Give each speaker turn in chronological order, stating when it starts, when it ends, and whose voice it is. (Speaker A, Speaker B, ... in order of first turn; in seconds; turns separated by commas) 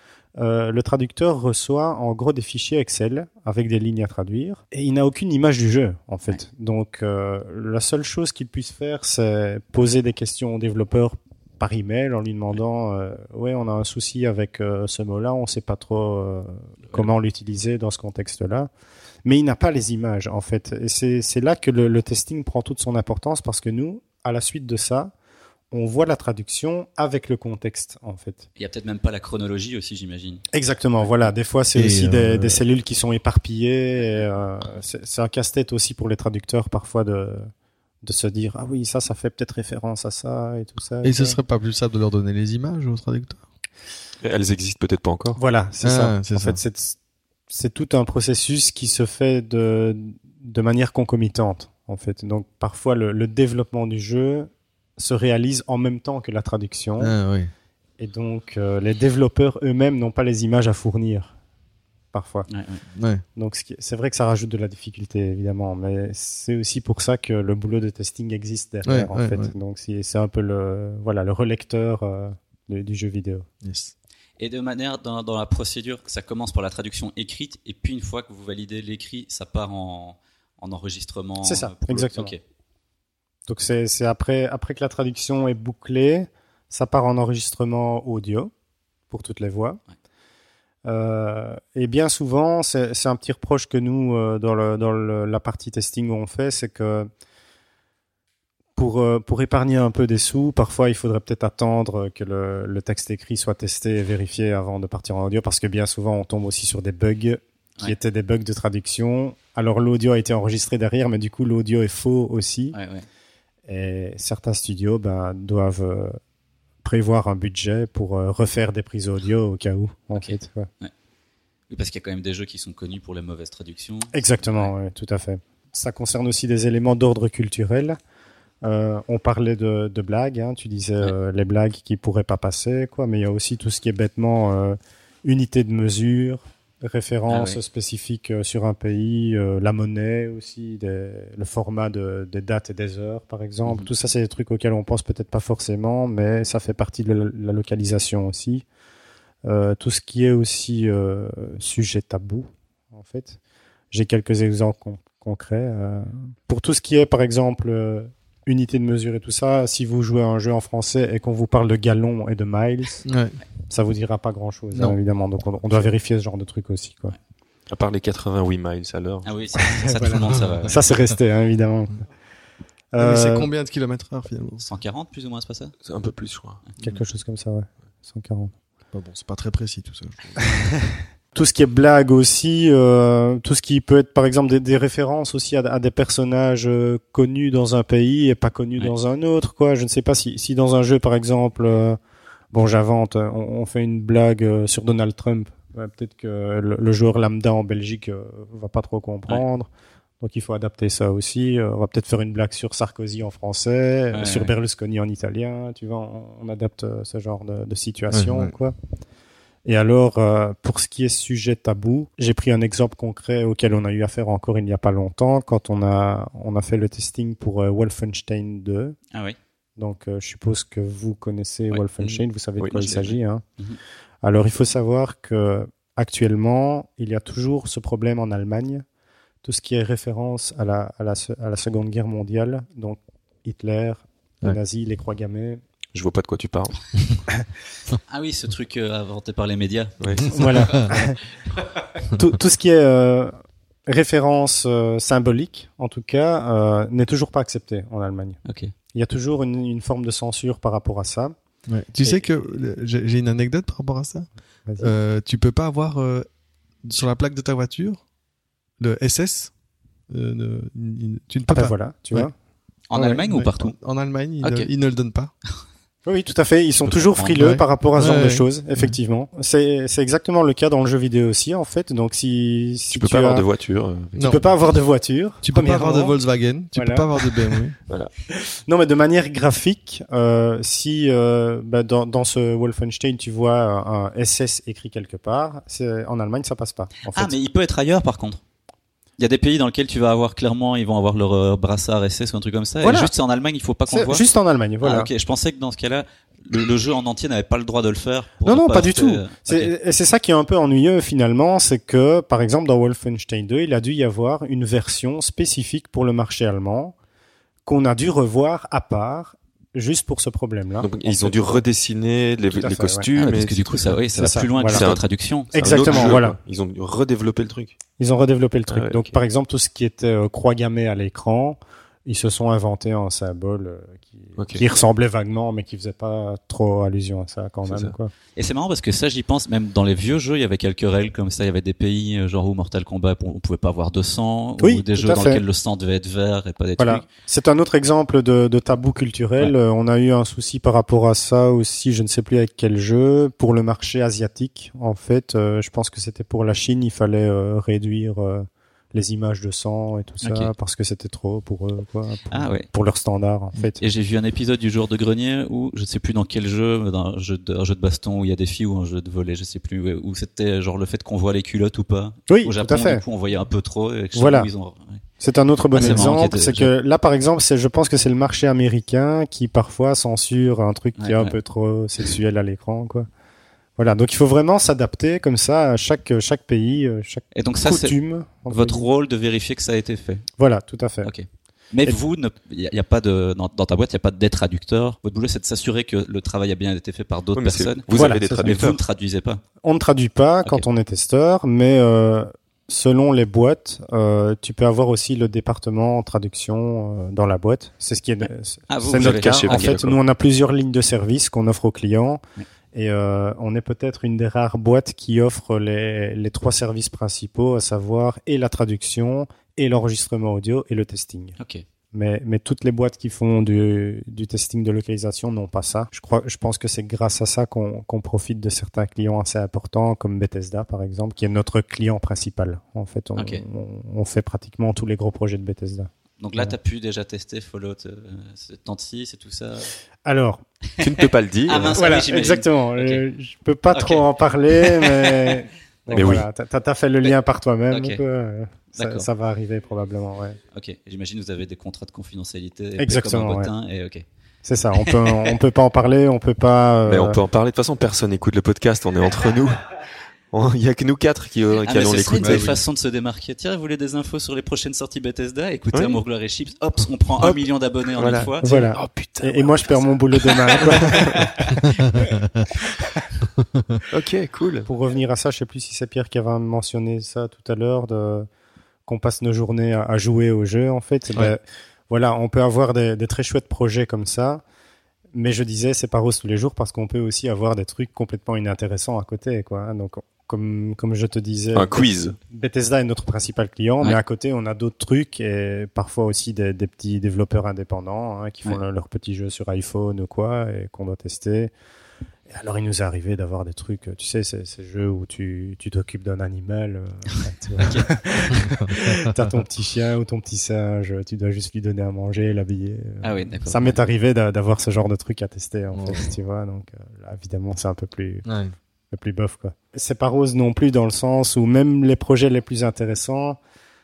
Speaker A: 0.4-18.7, Speaker A: 19.2-25.1, Speaker A: 25.7-28.4, Speaker B: 28.6-30.4, Speaker A: 30.5-37.5, Speaker C: 31.7-32.6, Speaker A: 38.0-41.4, Speaker C: 41.0-43.4, Speaker D: 44.2-45.4, Speaker A: 45.4-47.0, Speaker C: 45.8-46.6, Speaker A: 47.5-57.1, Speaker C: 57.0-57.5, Speaker A: 58.0-61.3, Speaker A: 62.1-62.5, Speaker B: 62.5-62.8, Speaker C: 62.9-63.2, Speaker A: 63.4-73.5, Speaker C: 68.8-69.5, Speaker C: 73.6-73.9, Speaker B: 74.4-82.4, Speaker A: 81.4-82.3, Speaker A: 83.5-88.5, Speaker A: 89.1-89.8, Speaker A: 90.8-97.1, Speaker A: 98.8-112.8, Speaker B: 112.7-113.0, Speaker A: 113.7-116.2, Speaker A: 116.8-120.7, Speaker B: 120.1-120.9, Speaker B: 121.7-124.7, Speaker A: 124.1-128.0, Speaker A: 128.6-148.6, Speaker B: 137.3-137.6, Speaker A: 149.4-153.4, Speaker A: 153.9-163.0, Speaker C: 163.1-163.4, Speaker A: 163.7-167.1, Speaker D: 167.7-169.3, Speaker B: 169.2-170.9, Speaker A: 169.6-171.9, Speaker A: 172.9-173.5, Speaker C: 173.0-174.6, Speaker B: 174.6-175.7, Speaker D: 175.8-176.6, Speaker A: 176.8-178.5, Speaker C: 178.9-180.5, Speaker A: 181.3-192.0, Speaker A: 192.5-199.7, Speaker A: 200.2-208.7, Speaker B: 204.1-204.5, Speaker C: 208.1-208.5, Speaker A: 209.6-219.0, Speaker A: 219.8-223.4, Speaker D: 222.0-223.1, Speaker A: 224.2-228.8, Speaker A: 229.4-235.6, Speaker D: 235.9-236.7, Speaker B: 238.1-241.0, Speaker D: 240.0-240.6, Speaker A: 240.3-241.2, Speaker A: 242.1-243.3, Speaker A: 243.9-248.4, Speaker B: 248.4-248.7, Speaker A: 248.9-251.3, Speaker C: 251.7-254.3, Speaker A: 254.7-254.9, Speaker C: 254.8-256.3, Speaker C: 256.8-258.0, Speaker C: 258.8-259.5, Speaker C: 260.1-262.3, Speaker A: 261.5-262.3, Speaker B: 262.9-263.8, Speaker C: 262.9-265.3, Speaker B: 264.4-264.7, Speaker A: 266.1-273.4, Speaker B: 266.8-267.4, Speaker C: 267.4-268.9, Speaker D: 272.9-274.4, Speaker A: 274.2-276.2, Speaker C: 275.4-277.8, Speaker A: 276.7-277.6, Speaker A: 278.3-287.3, Speaker B: 287.1-288.4, Speaker B: 289.2-294.2, Speaker A: 292.8-293.1, Speaker A: 293.9-295.1, Speaker B: 294.8-299.7, Speaker A: 298.4-306.9, Speaker A: 307.6-311.6, Speaker D: 310.8-315.0, Speaker A: 312.5-313.1, Speaker B: 313.1-316.1, Speaker A: 314.1-314.9, Speaker A: 315.5-316.4, Speaker D: 315.5-317.8, Speaker A: 318.0-328.1, Speaker D: 318.7-319.1, Speaker D: 324.4-324.6, Speaker D: 327.6-327.9, Speaker B: 328.4-337.0, Speaker A: 334.6-335.4, Speaker A: 336.8-353.8, Speaker B: 350.2-350.5, Speaker B: 352.3-352.6, Speaker B: 353.8-365.0, Speaker A: 362.3-363.0, Speaker A: 364.1-364.5, Speaker A: 365.2-373.1, Speaker B: 365.7-366.7, Speaker B: 371.0-371.3, Speaker A: 373.8-378.9, Speaker B: 377.3-377.9, Speaker B: 378.5-380.3, Speaker A: 380.4-381.1, Speaker B: 381.0-389.4, Speaker D: 387.3-388.8, Speaker A: 387.9-388.8, Speaker A: 389.6-402.2, Speaker B: 398.7-399.8, Speaker D: 398.9-400.0, Speaker A: 402.7-411.4, Speaker A: 411.9-426.5, Speaker B: 423.2-423.4, Speaker B: 426.2-429.7, Speaker A: 430.0-430.4, Speaker D: 430.8-431.8, Speaker B: 430.8-433.0, Speaker A: 431.7-440.4, Speaker B: 433.7-436.1, Speaker D: 435.9-436.2, Speaker B: 437.7-438.0, Speaker B: 438.8-439.1, Speaker B: 440.5-444.0, Speaker A: 442.8-443.5, Speaker A: 444.4-447.2, Speaker B: 444.7-445.3, Speaker D: 446.8-449.7, Speaker D: 450.3-452.6, Speaker B: 451.6-458.5, Speaker C: 452.1-452.5, Speaker D: 455.7-456.0, Speaker D: 457.9-461.3, Speaker A: 458.4-461.3, Speaker B: 460.5-462.0, Speaker D: 463.9-464.7, Speaker A: 464.6-468.3, Speaker A: 468.9-474.4, Speaker A: 475.1-491.5, Speaker D: 481.5-482.1, Speaker A: 492.3-508.2, Speaker B: 497.6-497.9, Speaker C: 498.6-498.9, Speaker B: 503.0-503.8, Speaker C: 505.7-506.1, Speaker C: 508.2-508.5, Speaker A: 508.9-513.4